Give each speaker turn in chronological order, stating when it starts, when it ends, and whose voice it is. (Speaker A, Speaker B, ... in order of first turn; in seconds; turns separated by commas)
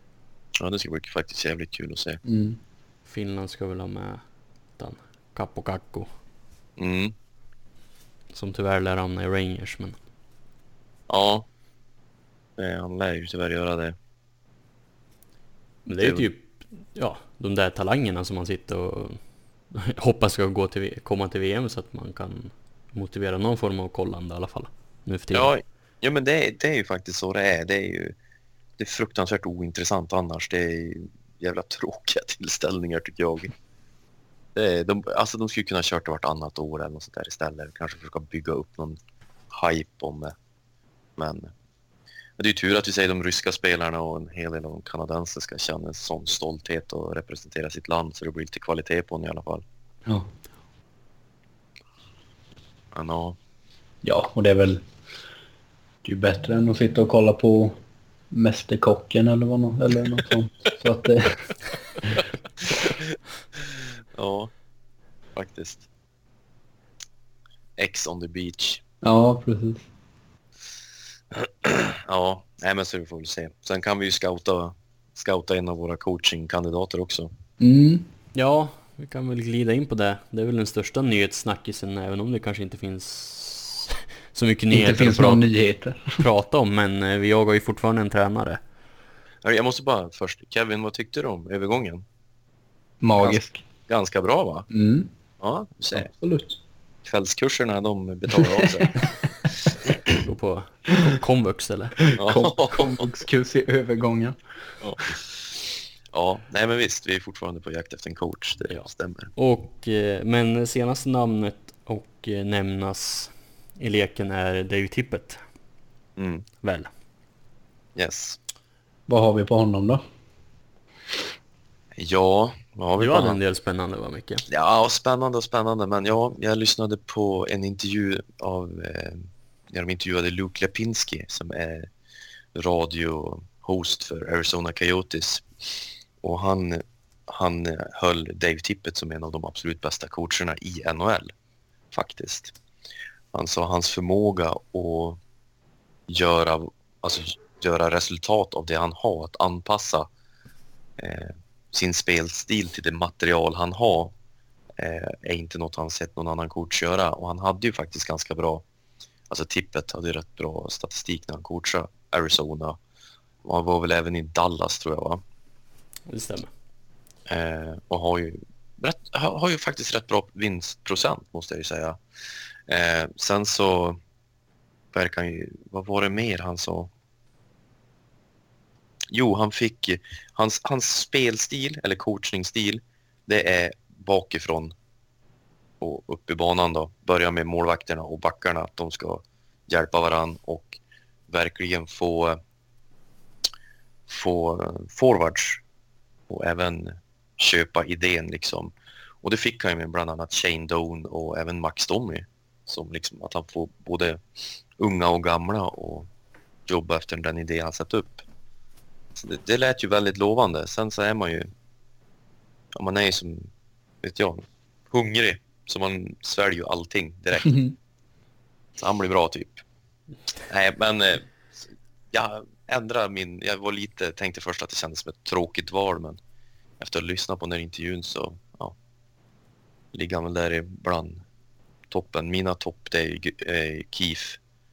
Speaker A: 0.6-2.2, Speaker B: 2.2-2.6, Speaker C: 3.0-4.2, Speaker C: 4.8-6.1, Speaker A: 6.8-7.1, Speaker C: 8.3-10.0, Speaker A: 11.1-11.4, Speaker A: 12.6-13.9, Speaker C: 15.8-25.5, Speaker A: 16.0-16.3, Speaker A: 25.3-28.1, Speaker A: 28.8-33.5, Speaker A: 34.5-39.0, Speaker A: 39.5-40.3, Speaker A: 41.1-41.5, Speaker A: 42.4-49.6, Speaker A: 52.9-53.4, Speaker B: 54.0-54.8, Speaker B: 56.0-57.8, Speaker B: 58.3-61.5, Speaker A: 62.1-64.5, Speaker A: 65.3-65.8, Speaker A: 67.8-68.8, Speaker B: 69.0-69.8, Speaker A: 71.3-77.3, Speaker B: 77.6-78.1, Speaker C: 78.3-85.4, Speaker B: 84.7-86.2, Speaker C: 86.2-88.6, Speaker A: 89.4-92.0, Speaker B: 93.0-93.6, Speaker A: 93.2-94.7, Speaker B: 94.7-95.1, Speaker A: 95.4-96.1, Speaker B: 95.9-96.6, Speaker A: 97.0-99.0, Speaker B: 98.4-98.8, Speaker C: 100.2-102.1, Speaker B: 102.1-104.4, Speaker A: 102.2-103.1, Speaker A: 106.1-109.3, Speaker C: 108.7-115.4, Speaker A: 116.2-116.5, Speaker C: 116.6-116.9, Speaker A: 117.9-118.4, Speaker B: 119.1-120.0, Speaker A: 122.0-123.4, Speaker C: 123.0-124.4, Speaker A: 124.5-131.9, Speaker A: 132.5-135.5, Speaker A: 136.2-141.3, Speaker A: 141.9-142.5, Speaker A: 143.3-145.2, Speaker A: 146.1-150.1, Speaker A: 151.0-154.1, Speaker A: 154.8-158.6, Speaker A: 159.3-162.8, Speaker A: 163.4-165.2, Speaker C: 166.1-166.5, Speaker A: 167.3-172.0, Speaker A: 172.7-174.0, Speaker A: 174.9-176.9, Speaker A: 179.1-184.7, Speaker A: 185.8-192.4, Speaker A: 194.1-195.6, Speaker A: 196.3-204.2, Speaker A: 204.8-206.1, Speaker A: 206.7-208.2, Speaker A: 209.2-211.5, Speaker A: 212.7-213.5, Speaker A: 214.0-217.5, Speaker B: 217.4-217.7, Speaker A: 218.8-219.6, Speaker A: 220.5-226.2, Speaker A: 226.8-228.8, Speaker A: 229.9-231.2, Speaker A: 231.9-234.4